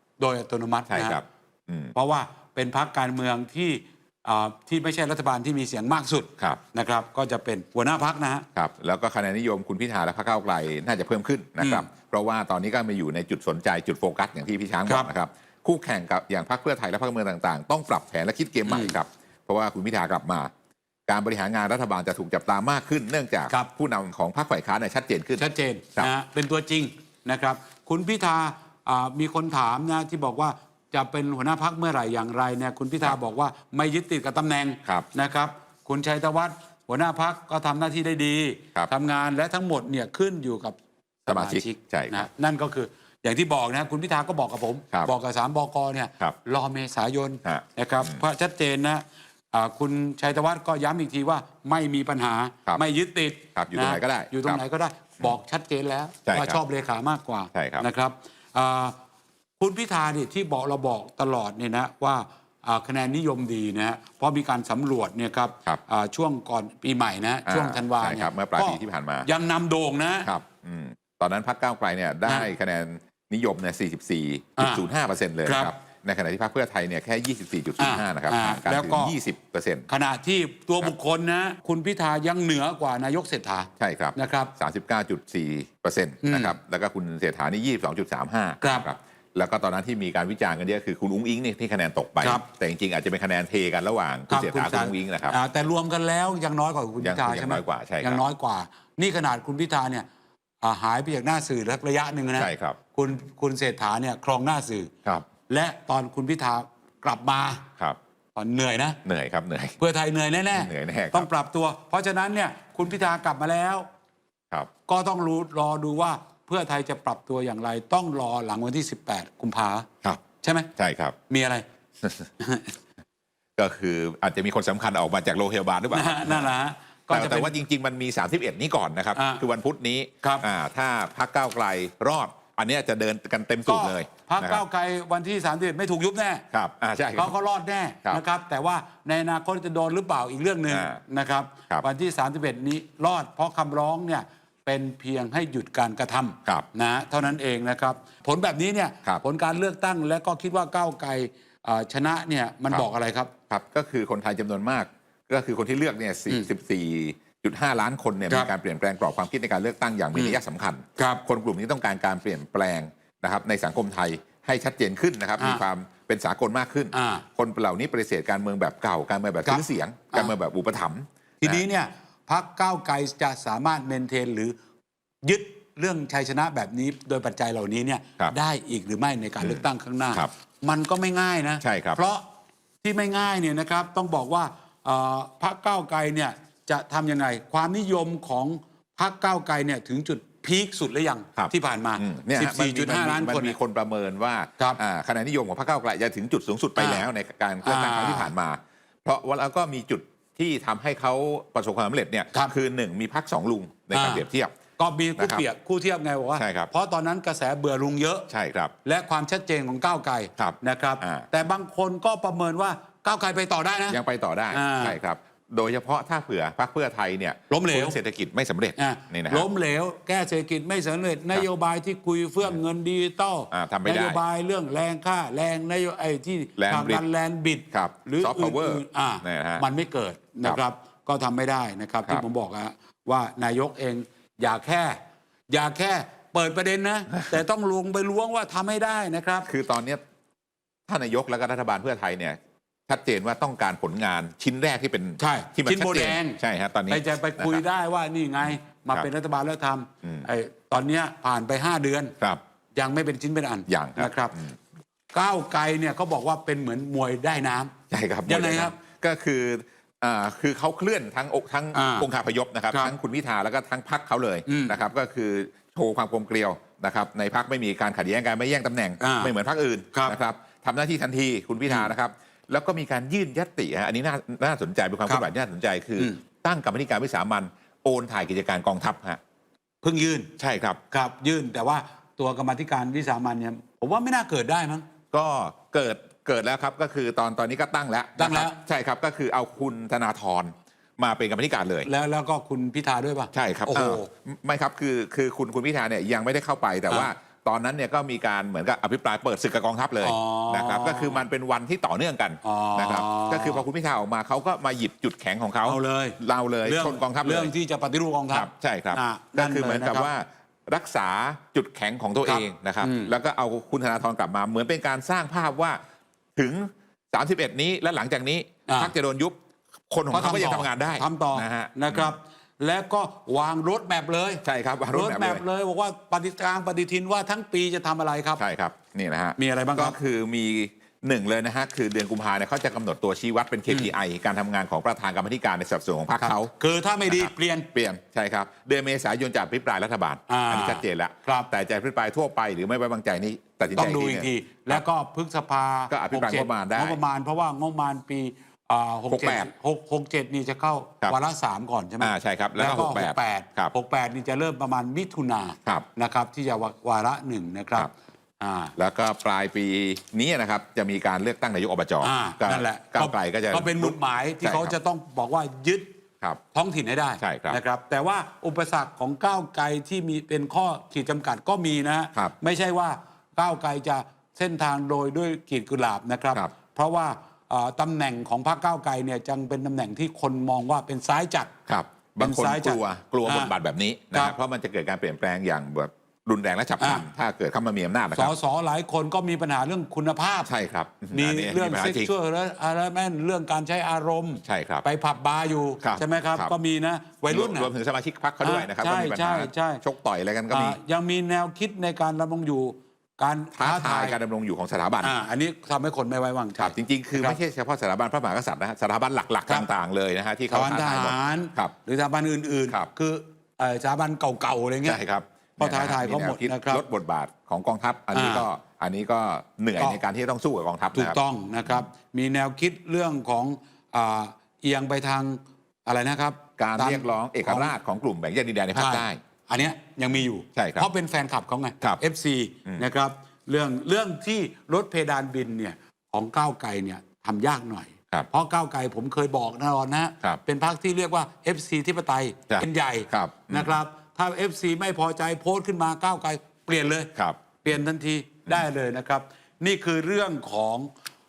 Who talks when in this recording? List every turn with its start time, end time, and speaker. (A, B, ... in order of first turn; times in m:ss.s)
0:00.2-0:01.2 A
0:00.9-0:01.9 B
0:02.0-0:08.5 A
0:08.6-0:20.5 B
0:11.6-0:11.9 A
0:18.7-0:19.0 A
0:21.1-0:25.4 B
0:25.4-0:59.0 A
0:41.3-0:42.3 B
0:47.4-0:48.2 B
0:53.6-0:54.6 B
0:56.3-0:56.6 B
0:57.5-0:57.9 B
0:59.6-1:10.3 A
1:07.5-1:09.3 B
1:10.2-1:19.9 B
1:15.4-1:15.7 A
1:17.8-1:19.1 A
1:19.9-1:24.5 A
1:23.8-1:35.4 B
1:26.2-1:26.6 A
1:28.6-1:28.9 A
1:34.3-1:40.1 A
1:37.0-1:38.2 B
1:40.6-1:44.9 A
1:42.4-1:42.8 B
1:45.5-1:47.7 A
1:48.4-1:49.0 A
1:49.0-1:49.8 B
1:49.8-1:53.9 A
1:50.5-1:51.3 B
1:54.9-1:59.9 A
2:00.4-2:00.7 A
2:00.8-2:01.2 B
2:01.3-2:01.6 A
2:02.4-2:02.8 A
2:03.6-2:06.5 B
2:05.9-2:07.5 A
2:07.1-2:14.6 B
2:09.2-2:09.4 A
2:13.7-2:16.4 A
2:16.5-2:17.3 B
2:17.2-2:33.3 A
2:20.7-2:21.0 B
2:33.5-2:51.6 B
2:40.1-2:40.4 A
2:41.0-2:41.2 A
2:46.9-2:47.2 A
2:49.4-2:50.3 A
2:51.4-2:54.6 A
2:55.2-3:02.2 A
2:59.4-3:00.3 B
3:01.6-3:02.0 B
3:02.8-3:13.6 A
3:11.4-3:24.5 B
3:16.8-3:17.0 A
3:17.6-3:18.3 A
3:23.9-3:24.2 A
3:24.8-3:28.3 A
3:25.2-3:25.4 B
3:26.4-3:26.7 B
3:28.3-3:28.7 B
3:28.8-3:34.0 A
3:30.4-3:31.3 B
3:33.9-3:39.5 B
3:34.5-3:35.0 A
3:37.5-3:38.0 A
3:38.8-3:55.0 A
3:43.5-3:44.2 B
3:46.6-3:47.0 B
3:47.7-3:49.6 B
3:55.5-3:59.5 A
3:59.5-4:00.0 B
4:00.9-4:07.6 B
4:05.2-4:12.2 A
4:08.4-4:09.1 B
4:10.0-4:10.3 B
4:12.8-4:14.4 A
4:13.7-4:14.6 B
4:15.1-4:17.7 A
4:17.9-4:39.2 B
4:18.3-4:18.8 A
4:21.7-4:22.1 A
4:24.5-4:24.8 A
4:29.0-4:29.3 A
4:39.8-4:40.3 A
4:40.4-4:40.8 B
4:40.9-4:44.9 A
4:45.1-4:51.9 B
4:48.2-4:48.6 A
4:51.8-4:54.1 A
4:53.3-5:07.5 B
5:00.0-5:01.2 A
5:02.4-5:03.7 A
5:05.6-5:10.1 A
5:08.3-5:15.8 B
5:12.2-5:13.1 A
5:16.4-5:19.4 B
5:18.7-5:18.9 A
5:19.9-5:22.2 B
5:20.1-5:28.4 A
5:24.4-5:25.4 B
5:28.4-5:36.5 B
5:29.4-5:30.0 A
5:36.2-5:37.7 A
5:37.1-5:44.8 B
5:40.3-5:41.5 A
5:43.7-5:58.7 A
5:45.9-5:47.0 B
5:49.1-5:49.5 B
5:52.0-5:53.7 B
5:58.8-6:04.8 B
6:02.0-6:05.9 A
6:06.5-6:21.5 A
6:07.2-6:07.6 B
6:21.7-6:28.3 B
6:22.2-6:23.5 A
6:26.8-6:27.1 A
6:28.1-6:30.5 A
6:30.5-6:32.1 B
6:31.1-6:37.7 A
6:34.4-6:34.8 B
6:35.8-6:36.5 B
6:37.3-6:40.8 B
6:38.4-6:39.8 A
6:40.5-6:44.2 A
6:43.6-6:45.2 B
6:45.0-6:47.4 A
6:46.6-6:51.7 B
6:50.5-6:55.0 A
6:54.8-7:01.8 B
6:55.6-6:56.8 A
6:58.1-6:58.5 A
7:00.9-7:07.7 A
7:06.6-7:09.2 B
7:08.7-7:30.9 A
7:10.6-7:10.9 B
7:22.5-7:23.8 B
7:27.2-7:27.5 B